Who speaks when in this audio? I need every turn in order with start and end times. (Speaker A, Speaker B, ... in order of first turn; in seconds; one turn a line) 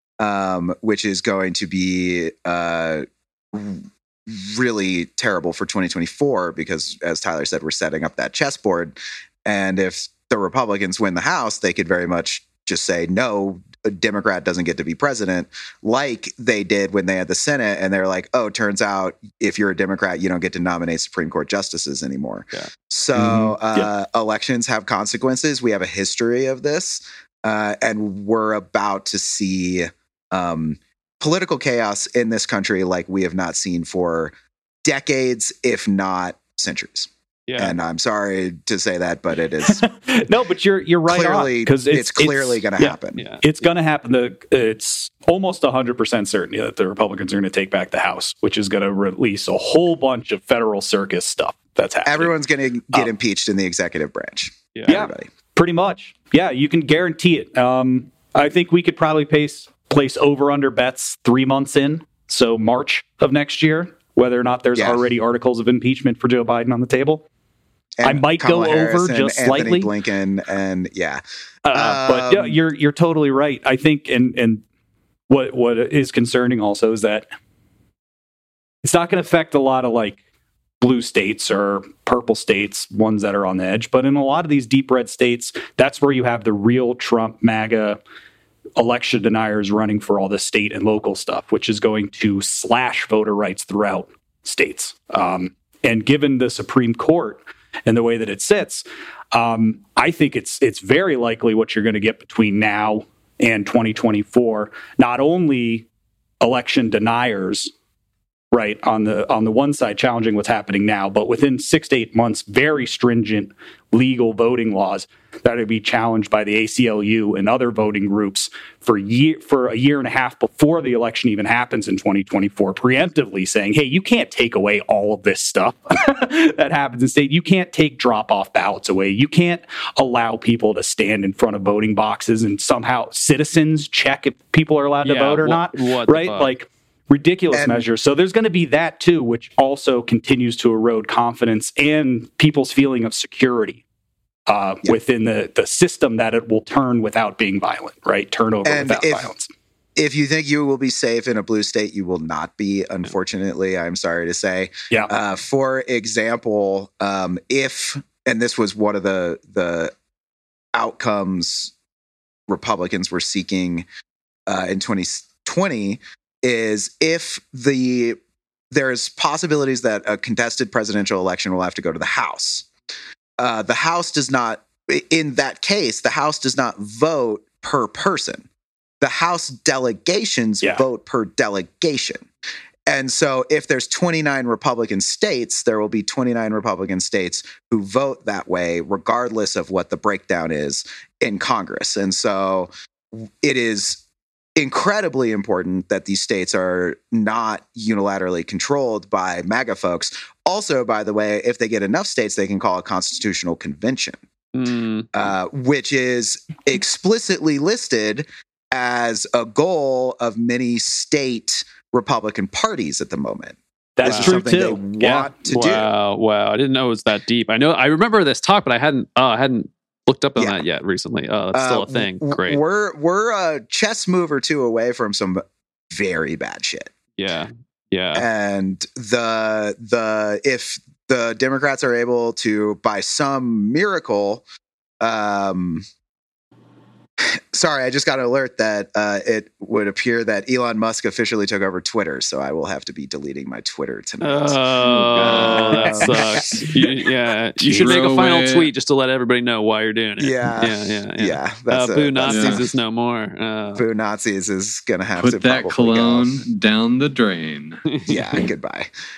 Speaker A: 0.2-39.8
Speaker B: 23.1-23.9
Speaker C: 37.5-37.8
Speaker B: 39.7-52.3
Speaker A: 41.1-43.2
Speaker C: 43.2-43.4
Speaker A: 52.0-55.3
Speaker B: 54.9-67.2
Speaker A: 64.8-65.0
Speaker A: 68.0-71.2
Speaker B: 68.0-69.9
Speaker B: 71.7-74.6
Speaker A: 71.7-72.6
Speaker B: 75.3-77.3
Speaker B: 78.8-80.2
Speaker B: 80.8-88.0
Speaker B: 88.8-105.9
Speaker B: 106.4-107.7
Speaker B: 108.5-143.8
Speaker C: 135.0-136.5
Speaker A: 137.5-137.9
Speaker B: 144.5-149.5
Speaker A: 148.7-149.3
Speaker A: 150.0-159.9
Speaker A: 160.8-161.7
Speaker A: 162.5-163.9
Speaker A: 164.5-168.2
Speaker A: 168.7-172.7
Speaker A: 173.4-178.5
Speaker A: 179.0-182.3
Speaker A: 182.9-194.0
Speaker A: 194.6-204.2
Speaker C: 204.5-205.1
Speaker A: 205.1-215.9
Speaker B: 214.0-215.3
Speaker C: 214.0-214.4
Speaker C: 215.5-222.6
Speaker A: 220.4-220.6
Speaker A: 221.5-226.9
Speaker C: 227.2-228.3
Speaker A: 228.1-234.4
Speaker A: 235.0-235.8
Speaker A: 237.2-244.6
Speaker C: 244.2-253.8
Speaker D: 244.8-246.0
Speaker A: 245.2-246.7
Speaker B: 246.0-246.7
Speaker D: 247.6-248.7
Speaker A: 250.2-252.7
Speaker D: 252.3-252.6
Speaker A: 253.8-256.4
Speaker D: 255.2-257.9
Speaker C: 257.9-258.2
Speaker A: 258.1-258.9